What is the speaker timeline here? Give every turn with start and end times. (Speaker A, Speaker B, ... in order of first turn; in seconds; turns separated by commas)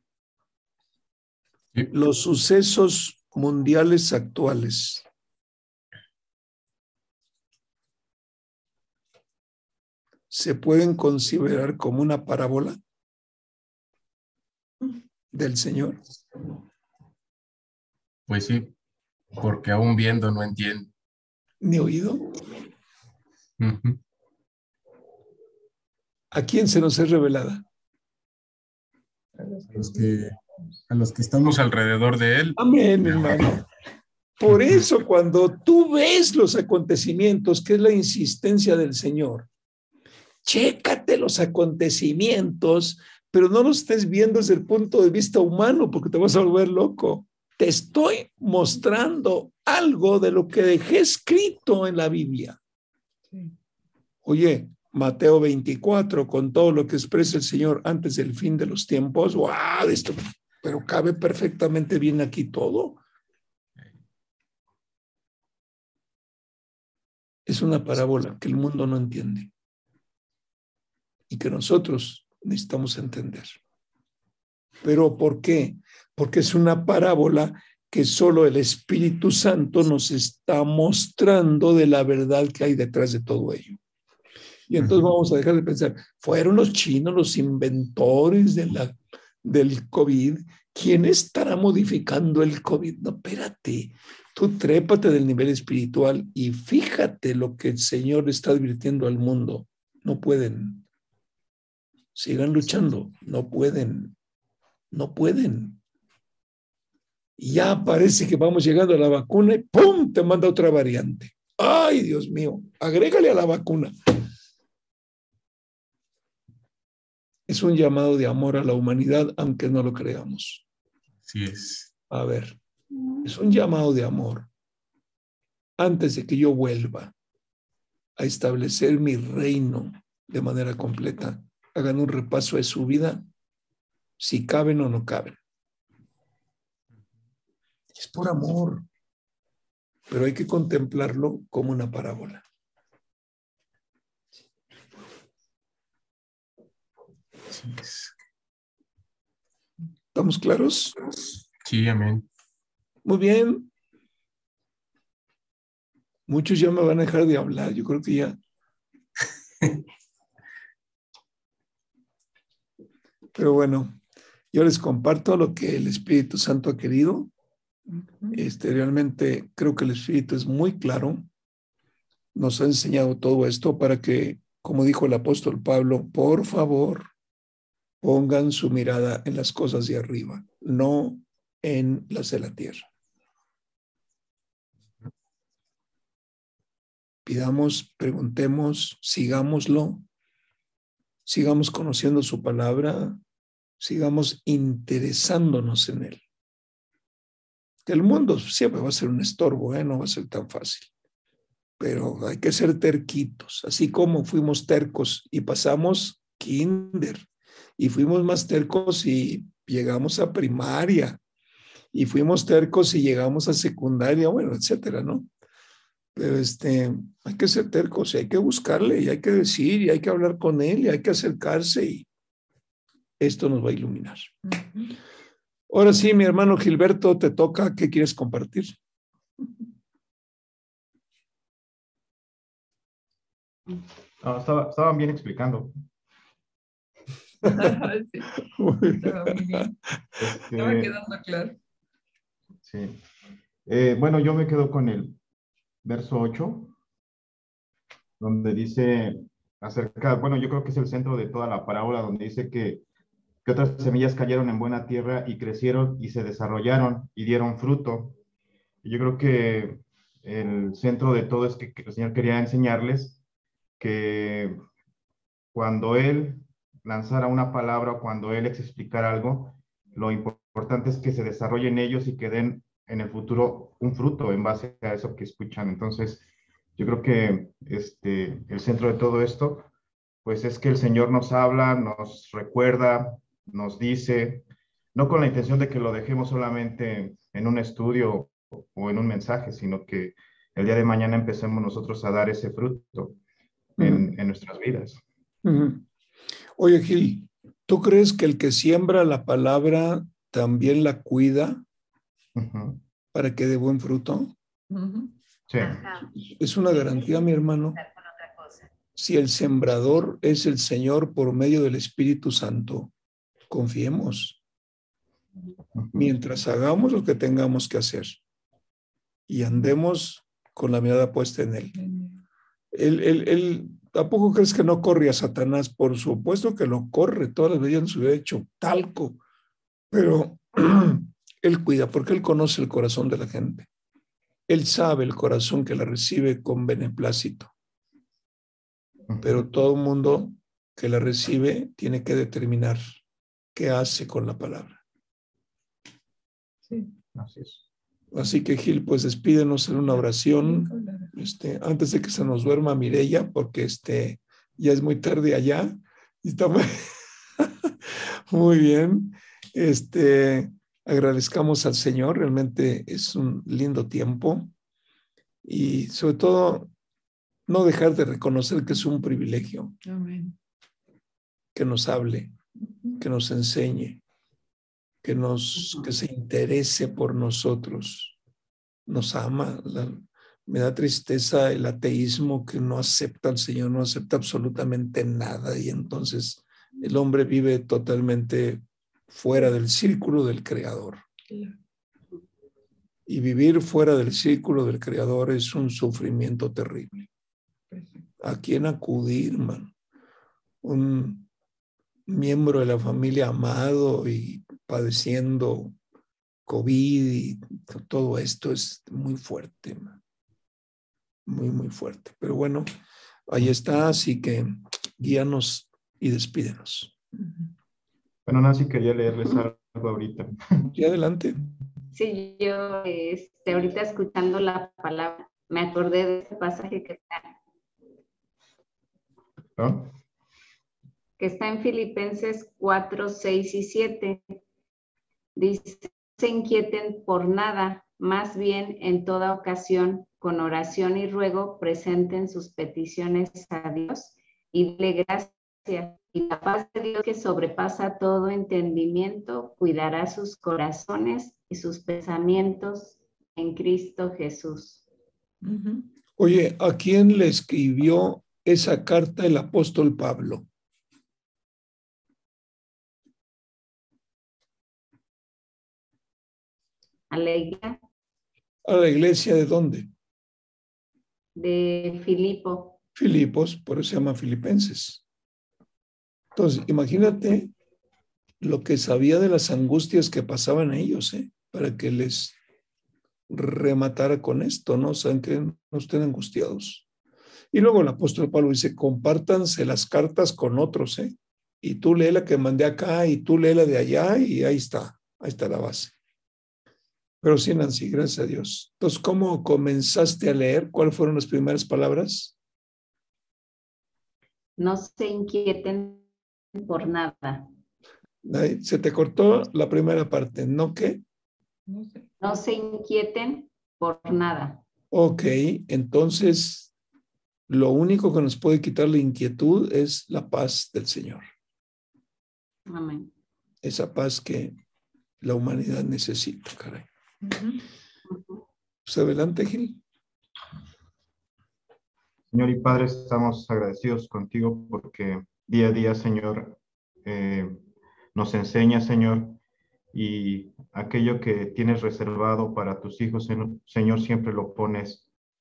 Speaker A: 1.9-5.0, Speaker A: 10.3-12.8, Speaker A: 15.3-16.0, Speaker B: 18.3-18.7, Speaker B: 19.4-20.9, Speaker A: 21.6-22.2, Speaker B: 23.6-24.0, Speaker A: 26.3-27.6, Speaker C: 29.4-30.2, Speaker B: 29.7-30.3, Speaker B: 30.9-33.4, Speaker A: 32.6-33.6, Speaker A: 34.4-39.5, Speaker A: 40.4-52.6, Speaker C: 53.3-53.5, Speaker A: 54.2-63.0, Speaker A: 67.5-69.5, Speaker A: 71.3-73.6, Speaker A: 74.8-83.8, Speaker A: 84.7-100.8, Speaker A: 102.1-104.1, Speaker A: 104.9-105.8, Speaker A: 107.4-113.9, Speaker A: 117.5-120.6, Speaker B: 121.2-121.9, Speaker A: 122.1-122.6, Speaker A: 123.2-124.5, Speaker A: 125.8-127.1, Speaker A: 128.2-133.2, Speaker A: 134.2-135.4, Speaker A: 137.9-138.8, Speaker A: 140.1-142.4, Speaker B: 147.5-148.1, Speaker A: 150.1-150.9, Speaker B: 151.6-152.2, Speaker A: 153.0-153.7, Speaker A: 156.3-158.4, Speaker A: 163.3-164.0, Speaker A: 164.5-167.3, Speaker C: 167.9-168.3, Speaker A: 168.3-171.3, Speaker A: 172.3-177.1, Speaker A: 178.0-182.9, Speaker A: 187.2-190.1, Speaker A: 191.2-193.2, Speaker A: 193.8-196.2, Speaker A: 197.8-200.9, Speaker A: 201.8-207.2, Speaker A: 207.8-211.2, Speaker A: 211.9-215.3, Speaker A: 216.1-222.1, Speaker A: 223.2-224.3, Speaker C: 224.4-224.9, Speaker A: 225.7-228.8, Speaker D: 234.2-235.7, Speaker C: 237.4-238.3, Speaker A: 238.5-239.7, Speaker C: 239.0-239.7, Speaker D: 240.2-240.9, Speaker C: 240.6-241.6, Speaker D: 242.6-243.0, Speaker D: 243.7-245.2, Speaker D: 245.8-246.7, Speaker D: 248.2-252.8, Speaker D: 253.4-258.2, Speaker D: 258.8-263.2, Speaker D: 263.8-264.6, Speaker D: 265.5-276.2, Speaker D: 276.8-279.7, Speaker D: 280.2-293.2, Speaker D: 293.8-295.0, Speaker A: 293.8-294.1, Speaker A: 295.4-295.8, Speaker A: 296.6-301.6, Speaker D: 302.4-302.8, Speaker A: 303.1-304.3, Speaker C: 304.7-305.1, Speaker D: 305.5-305.8, Speaker A: 306.1-307.8, Speaker A: 308.9-312.9, Speaker A: 313.5-314.4, Speaker D: 315.8-316.1, Speaker A: 315.9-318.2, Speaker A: 319.3-321.7, Speaker C: 321.7-322.2, Speaker A: 322.7-329.2, Speaker A: 329.9-333.7, Speaker A: 334.5-337.5, Speaker D: 339.1-339.4, Speaker A: 339.2-342.8, Speaker A: 343.5-344.8, Speaker C: 346.6-346.9, Speaker D: 347.1-347.6, Speaker A: 348.1-356.7, Speaker C: 350.4-351.1, Speaker A: 357.4-357.7, Speaker A: 358.3-364.5, Speaker A: 365.4-366.7, Speaker A: 367.5-369.8, Speaker C: 369.8-370.3, Speaker A: 371.5-372.4, Speaker C: 372.6-373.0, Speaker A: 373.0-374.0, Speaker A: 375.0-378.2, Speaker A: 378.9-391.0, Speaker C: 391.3-391.6, Speaker A: 393.1-397.1, Speaker C: 397.7-398.1, Speaker A: 398.2-399.7, Speaker A: 400.6-401.3, Speaker A: 402.1-405.7, Speaker A: 406.4-410.0, Speaker A: 411.2-412.7, Speaker A: 413.3-416.9, Speaker C: 417.2-417.5, Speaker D: 418.2-420.4, Speaker A: 420.7-421.4, Speaker E: 421.9-427.3, Speaker D: 429.6-429.9, Speaker E: 431.2-434.4, Speaker E: 435.4-454.8, Speaker C: 455.4-455.8, Speaker A: 456.2-460.5, Speaker E: 467.1-467.8, Speaker A: 468.6-469.9, Speaker E: 471.4-472.8, Speaker A: 472.9-475.0, Speaker A: 476.4-477.5, Speaker A: 478.4-482.4, Speaker A: 483.3-486.9, Speaker A: 487.5-495.9, Speaker A: 497.2-502.3, Speaker E: 504.6-507.5, Speaker A: 508.2-511.0, Speaker C: 511.7-512.1, Speaker E: 512.2-514.6, Speaker A: 514.9-516.7, Speaker A: 517.5-521.3, Speaker E: 522.7-523.1, Speaker A: 523.6-524.6, Speaker A: 525.2-526.9, Speaker C: 527.2-527.6, Speaker E: 528.1-528.4, Speaker A: 528.9-529.8, Speaker D: 532.3-537.6, Speaker D: 538.1-539.4, Speaker D: 539.9-545.1